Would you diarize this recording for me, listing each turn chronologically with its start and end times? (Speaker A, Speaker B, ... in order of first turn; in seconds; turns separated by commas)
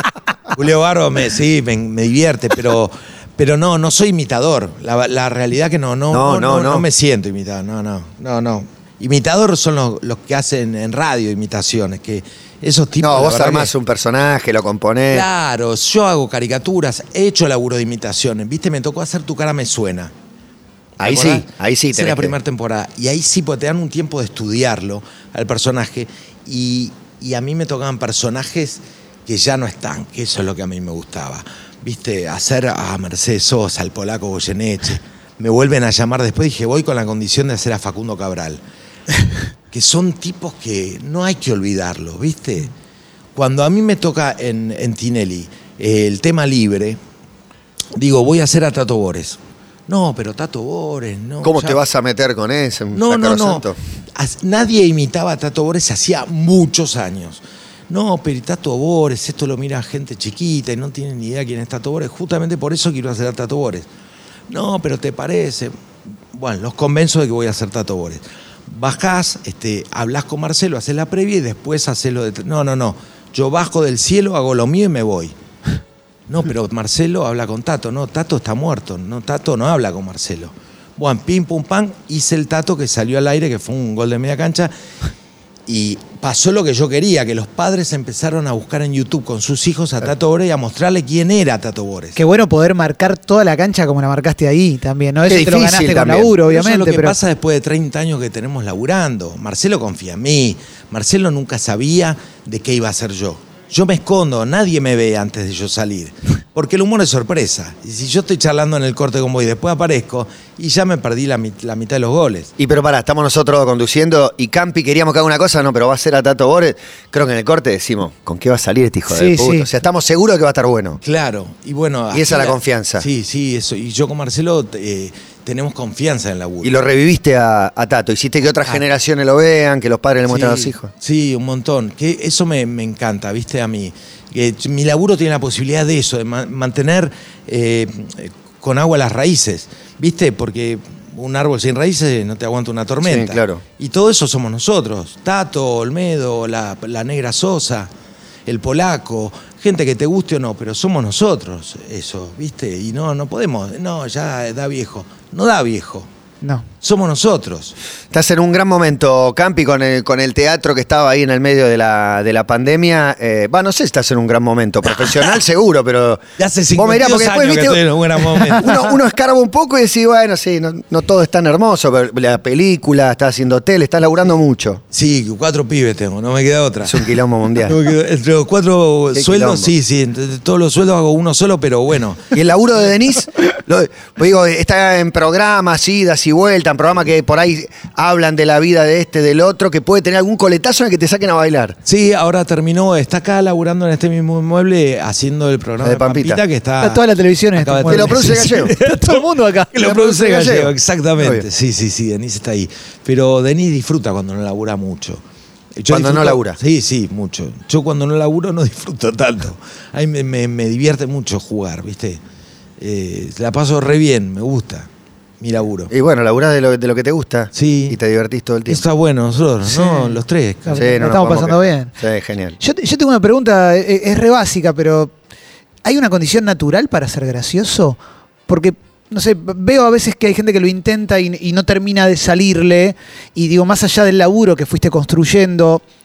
Speaker A: 0.5-13.7, Speaker B: 6.1-6.9, Speaker B: 13.0-15.3, Speaker A: 15.1-20.1, Speaker B: 21.0-22.4, Speaker A: 21.0-38.6, Speaker A: 39.7-42.7, Speaker A: 43.4-47.0, Speaker A: 48.0-51.8, Speaker B: 51.4-53.8, Speaker A: 52.9-63.9, Speaker A: 64.5-65.7, Speaker A: 66.3-75.3, Speaker A: 76.3-84.7, Speaker A: 85.7-92.2, Speaker C: 92.2-97.2, Speaker B: 95.3-96.3, Speaker A: 96.4-112.5, Speaker B: 112.6-121.0, Speaker C: 119.1-119.7, Speaker A: 121.0-126.7, Speaker B: 122.1-123.0, Speaker B: 126.6-130.9, Speaker A: 130.3-147.9, Speaker B: 143.0-143.6, Speaker A: 148.5-156.1, Speaker A: 156.8-157.8, Speaker B: 158.1-166.2, Speaker A: 166.4-169.0, Speaker B: 166.8-174.8, Speaker A: 174.9-182.3, Speaker B: 176.8-177.8, Speaker B: 179.1-179.7, Speaker B: 182.3-191.8, Speaker A: 191.8-197.0, Speaker B: 195.8-196.4, Speaker C: 196.8-199.8, Speaker A: 197.6-205.2, Speaker B: 197.8-198.7, Speaker B: 199.8-201.5, Speaker A: 205.8-212.2, Speaker B: 205.9-206.6, Speaker A: 212.8-214.9, Speaker A: 215.4-215.9, Speaker B: 215.9-218.8, Speaker A: 217.5-218.0, Speaker A: 218.7-221.0, Speaker C: 219.7-221.9, Speaker B: 220.8-222.6, Speaker C: 222.6-225.1, Speaker C: 225.8-235.8